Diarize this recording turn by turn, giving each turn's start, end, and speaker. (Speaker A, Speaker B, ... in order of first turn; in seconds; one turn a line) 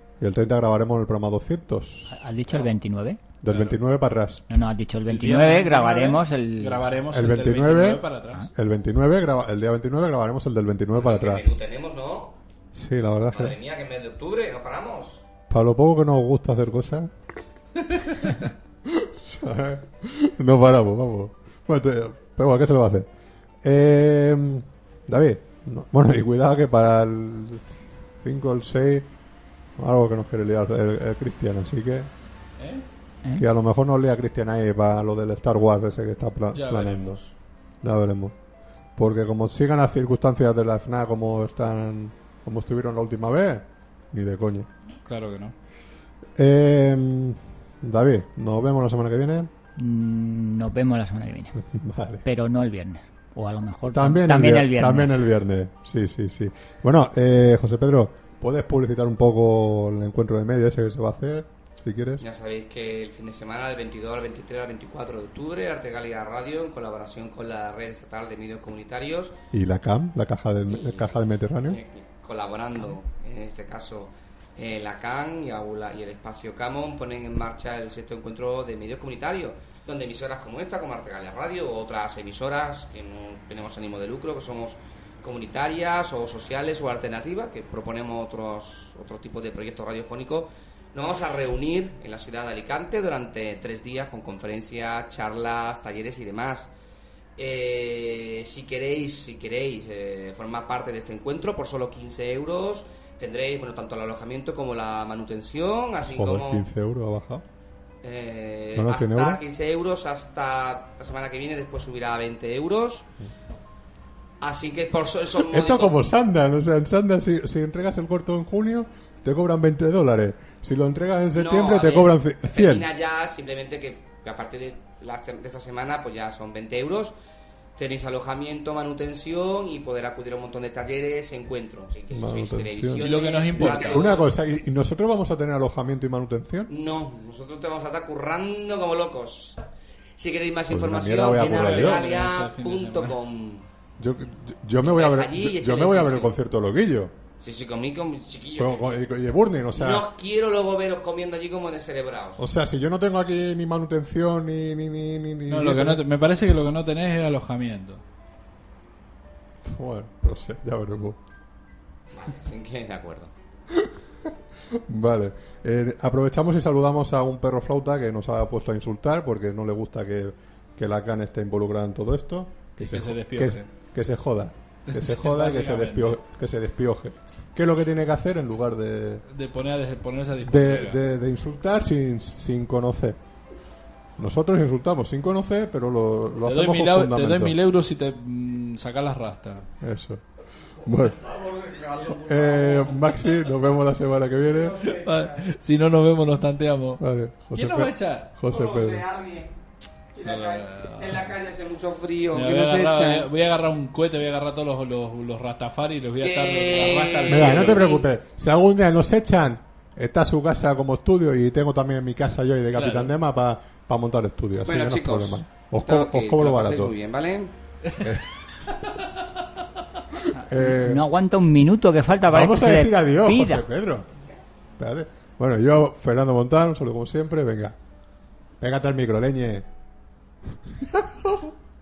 Speaker A: 0.2-2.2
Speaker B: 2.1-3.2
Speaker A: 3.4-4.4
Speaker C: 3.5-3.8
Speaker B: 4.5-6.9
Speaker C: 5.1-8.5
Speaker A: 7.1-11.5
Speaker D: 10.9-12.4
Speaker A: 12.7-13.6
Speaker D: 13.3-15.2
Speaker A: 15.5-17.1
Speaker A: 18.9-23.1
Speaker A: 23.6-29.1
Speaker A: 29.8-32.1
Speaker C: 32.6-32.9
Speaker A: 33.4-37.2
Speaker C: 36.5-37.3
Speaker A: 37.8-38.4
Speaker A: 39.0-44.7
Speaker C: 45.0-45.5
Speaker A: 46.4-49.5
Speaker B: 49.8-51.6
Speaker A: 51.6-52.2
Speaker B: 52.2-55.2
Speaker A: 53.9-62.2
Speaker D: 62.2-69.4
Speaker A: 69.5-71.8
Speaker D: 70.7-71.2
Speaker D: 71.7-96.7
Speaker D: 97.4-106.7
Speaker A: 106.0-107.5
Speaker D: 108.0-113.1
Speaker A: 108.8-109.4
Speaker D: 114.4-116.0
Speaker A: 115.4-122.9
Speaker D: 121.3-127.1
Speaker D: 127.8-134.3
Speaker A: 132.1-136.7
Speaker C: 133.0-134.2
Speaker D: 136.7-139.6
Speaker D: 140.2-143.7
Speaker A: 140.7-142.0
Speaker C: 141.4-143.2
Speaker A: 144.0-147.1
Speaker D: 144.8-146.3
Speaker D: 147.4-148.9
Speaker A: 148.6-150.1
Speaker D: 149.8-152.4
Speaker A: 152.4-156.0
Speaker C: 155.5-158.0
Speaker A: 159.6-161.2
Speaker D: 162.1-163.3
Speaker A: 163.7-179.2
Speaker C: 172.8-173.7
Speaker C: 174.9-176.2
Speaker C: 179.3-181.0
Speaker A: 180.4-183.2
Speaker A: 184.2-187.6
Speaker C: 186.4-189.7
Speaker A: 189.8-190.2
Speaker A: 190.8-191.2
Speaker D: 191.2-193.0
Speaker A: 192.1-194.9
Speaker D: 194.5-195.4
Speaker C: 194.8-198.3
Speaker A: 197.0-199.1
Speaker D: 198.5-199.5
Speaker D: 200.1-203.3
Speaker C: 200.2-201.4
Speaker C: 202.3-207.9
Speaker D: 206.2-208.1
Speaker A: 207.3-216.9
Speaker C: 212.7-213.1
Speaker D: 214.7-217.5
Speaker A: 218.0-218.3
Speaker B: 220.3-223.7
Speaker A: 220.4-221.1
Speaker A: 222.2-224.1
Speaker A: 224.8-227.8
Speaker A: 228.6-229.7
Speaker A: 230.7-231.5